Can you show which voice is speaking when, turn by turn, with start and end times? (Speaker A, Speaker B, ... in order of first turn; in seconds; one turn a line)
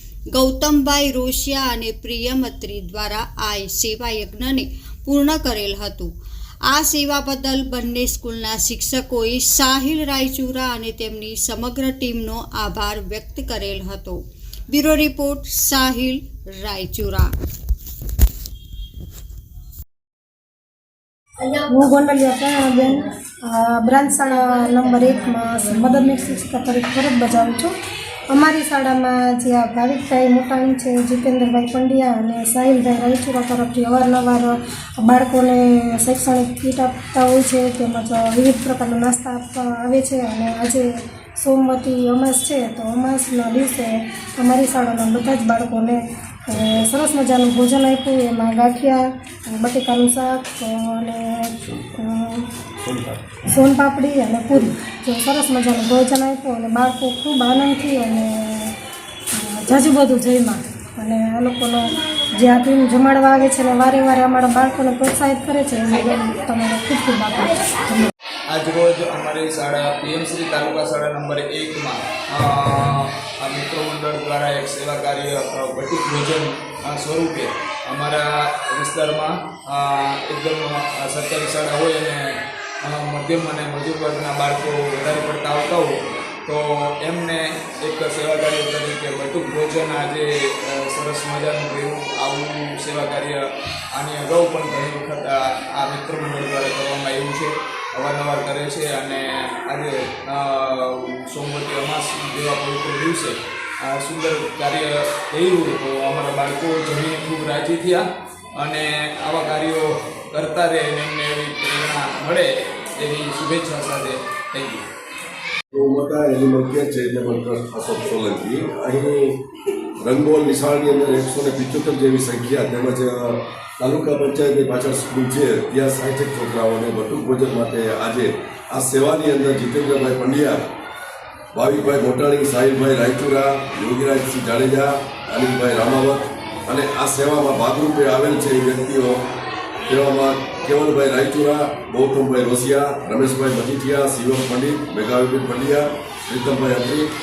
Speaker A: 0.3-6.1
Speaker A: 6.7-17.3
Speaker B: 21.5-27.7
Speaker B: 28.3-52.5
Speaker C: 52.9-53.1
Speaker B: 53.5-58.7
Speaker B: 59.3-68.1
Speaker D: 68.5-108.0
Speaker D: 108.6-114.8
Speaker C: 115.7-119.4
Speaker C: 120.0-130.7
Speaker C: 131.5-139.2
Speaker C: 139.9-147.1